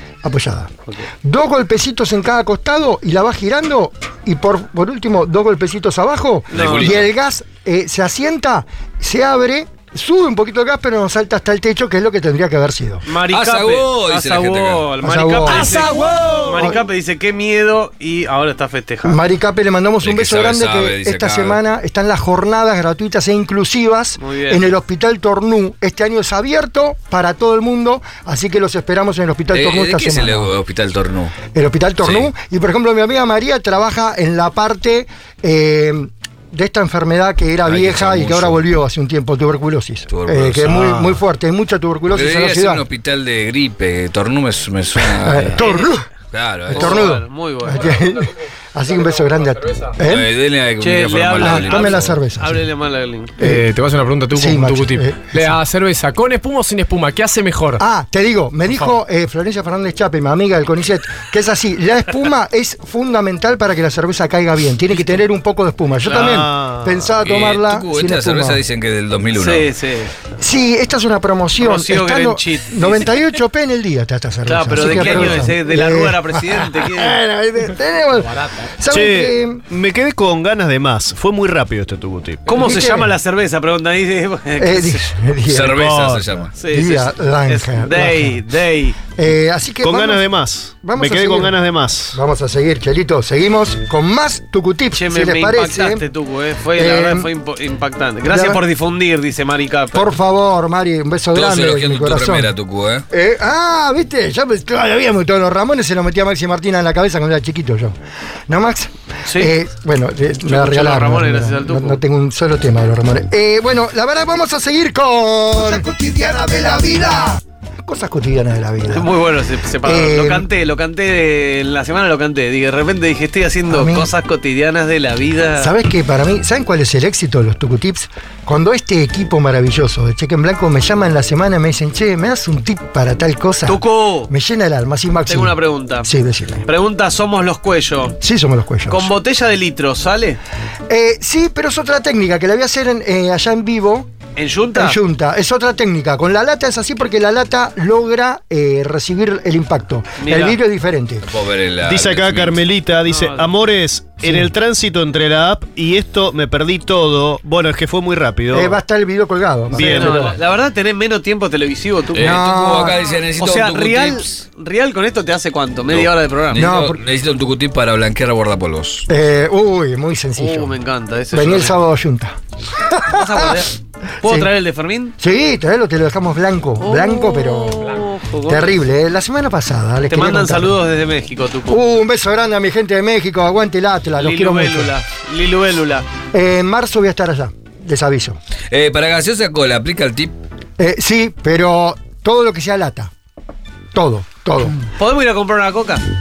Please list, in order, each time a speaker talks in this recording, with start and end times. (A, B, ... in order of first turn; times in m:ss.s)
0:00.2-0:13.0 A
0:06.5-0:07.0 B
0:06.5-0:07.1 C
0:13.0-0:19.2 B
0:13.3-0:14.9 C
0:15.0-0:15.8 A
0:15.5-0:16.8 D
0:16.5-0:16.8 A
0:19.0-0:30.5 A
0:20.0-0:21.6 C
0:24.2-0:24.7 B
0:29.5-0:31.3 C
0:31.5-0:42.8 A
0:32.0-0:32.3 C
0:37.6-0:38.6 C
0:40.1-0:41.2 C
0:42.1-0:45.6 C
0:45.0-0:46.0 A
0:45.6-0:45.9 B
0:46.3-0:47.1 C
0:46.7-0:50.3 A
0:46.7-0:48.0 B
0:49.0-0:49.9 E
0:50.0-0:52.2 C
0:50.8-0:53.4 B
0:51.4-0:52.6 A
0:53.4-0:53.6 A
0:53.4-0:57.8 E
0:54.3-0:55.6 A
0:57.8-1:08.6 A
1:06.0-1:06.3 B
1:06.1-1:07.0 D
1:07.2-1:09.7 C
1:09.4-1:10.1 B
1:10.4-1:19.6 A
1:11.6-1:13.1 B
1:14.4-1:17.2 B
1:14.8-1:15.3 D
1:18.9-1:22.4 D
1:22.4-1:25.1 B
1:22.5-1:23.1 A
1:24.6-1:25.8 A
1:25.5-1:26.5 C
1:25.7-1:26.3 D
1:26.6-1:29.0 B
1:26.7-1:28.4 A
1:29.1-1:30.3 A
1:29.8-1:32.2 D
1:30.8-1:36.0 A
1:34.9-1:40.1 B
1:36.7-1:37.3 A
1:38.3-1:38.6 A
1:39.9-1:42.5 A
1:41.3-1:43.0 C
1:43.1-1:48.0 A
1:48.5-1:59.1 A
1:49.2-1:49.5 B
1:50.4-1:52.0 B
1:58.9-2:05.7 B
1:59.8-2:00.5 A
2:03.7-2:04.1 A
2:05.6-2:16.6 A
2:13.6-2:14.3 B
2:15.3-2:16.1 B
2:16.6-2:18.2 B
2:18.2-2:19.1 A
2:18.9-2:20.4 B
2:20.9-2:24.1 A
2:24.4-2:25.0 B
2:24.7-2:31.2 A
2:30.2-2:30.6 B
2:31.2-2:32.6 C
2:31.8-2:38.8 D
2:33.0-2:33.5 B
2:34.2-2:34.5 A
2:38.5-2:40.4 A
2:39.7-2:40.3 D
2:39.8-2:42.4 B
2:42.1-2:44.4 C
2:42.1-2:43.0 A
2:43.4-2:46.7 B
2:45.9-2:49.1 C
2:46.5-2:47.0 A
2:49.1-2:50.8 A
2:50.4-2:51.8 B
2:51.3-2:53.6 A
2:53.0-2:55.1 B
2:54.2-2:54.5 A
2:55.2-3:00.8 A
2:56.8-2:58.7 B
3:00.1-3:01.8 B
3:01.7-3:04.9 A
3:04.2-3:06.0 B
3:06.3-3:08.4 A
3:08.7-3:10.3 C
3:10.8-3:13.1 A
3:13.9-3:14.8 A
3:15.0-3:16.0 B